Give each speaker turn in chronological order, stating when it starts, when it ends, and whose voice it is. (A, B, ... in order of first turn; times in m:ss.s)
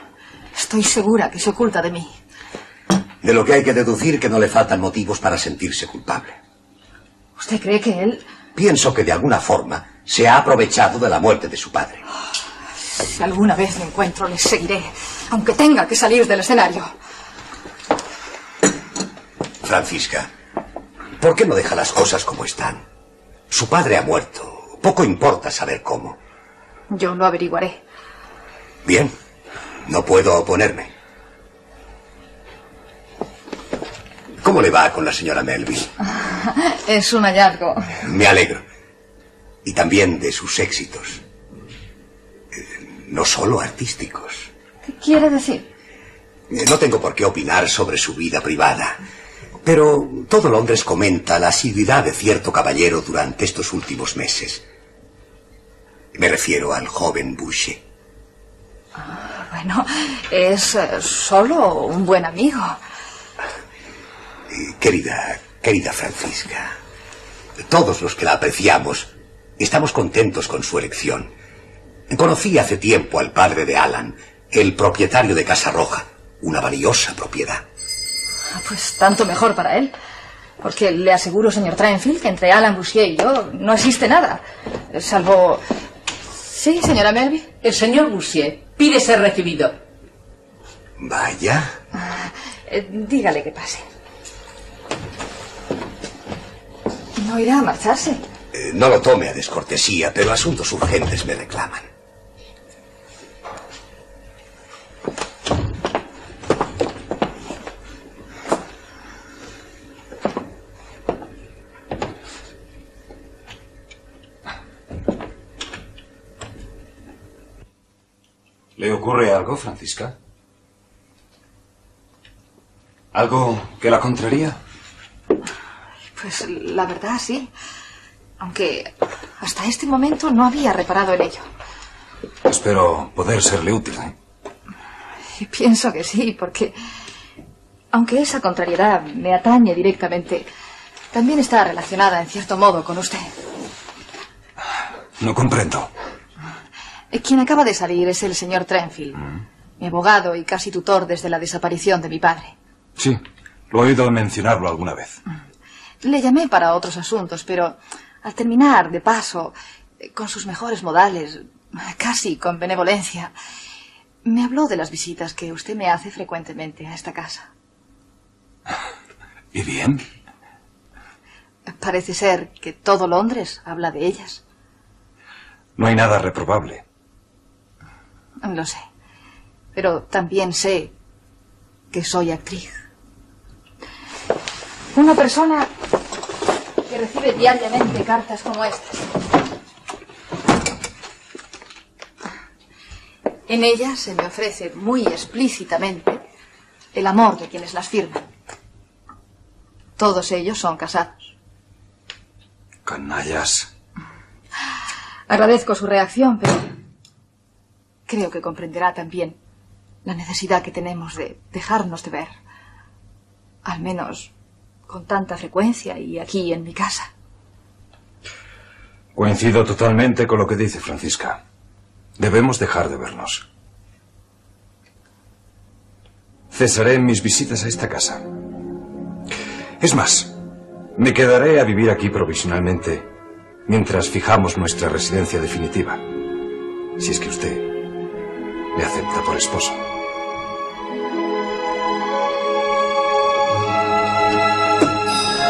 0:00.6-0:02.1 A
0:03.2-0:06.4 B
0:07.4-0:08.2 A
0:08.6-0:12.0 B
0:12.8-0:16.9 A
0:19.6-0:20.3 B
0:21.2-0:22.8 B
0:23.5-0:26.2 B
0:26.9-0:27.8 A
0:28.8-0:29.2 B
0:29.8-0:30.9 B
0:34.4-0:35.9 B
0:36.3-0:37.9 A
0:38.0-0:38.6 B
0:39.6-0:41.2 B
0:42.5-0:44.5 B
0:44.8-0:45.7 A
0:46.5-0:49.0 B
0:49.6-0:54.6 B
0:56.1-0:57.8 B
0:59.0-1:02.8 A
1:04.5-1:06.8 B
1:07.6-1:11.3 B
1:12.1-1:17.6 B
1:18.6-1:19.9 A
1:20.6-1:25.6 A
1:26.4-1:27.5 A
1:27.6-1:29.8 C
1:31.0-1:31.7 B
1:32.0-1:33.9 A
1:37.2-1:38.2 A
1:38.5-1:41.9 B
1:58.8-2:00.2 D
2:03.1-2:04.6 D
2:06.2-2:07.5 A
2:08.4-2:11.5 A
2:12.4-2:14.1 D
2:15.4-2:16.8 A
2:17.9-2:20.5 A
2:21.1-2:23.4 A
2:25.2-2:25.9 D
2:27.1-2:29.3 A
2:29.8-2:32.6 A
2:33.0-2:35.2 D
2:36.0-2:43.3 A
2:44.2-2:47.5 A
2:49.5-2:50.1 D
2:51.7-2:54.4 A
2:55.8-2:56.8 D
2:58.4-2:58.8 A
2:59.8-3:00.9 A
3:01.9-3:02.8 A
3:04.9-3:05.7 A
3:06.9-3:09.0 A
3:13.5-3:16.2 A
3:16.9-3:18.3 A
3:20.0-3:21.3 A
3:22.8-3:23.7 D
3:25.3-3:26.7 A
3:28.1-3:29.4 A
3:30.0-3:32.3 A
3:33.6-3:34.3 A
3:34.9-3:37.1 A
3:39.1-3:41.4 D
3:42.2-3:43.4 D
3:46.5-3:48.3 D
3:49.8-3:50.4 D
3:51.0-3:53.1 D
3:53.7-3:56.0 D
3:57.0-3:57.7 D
3:58.7-3:59.8 D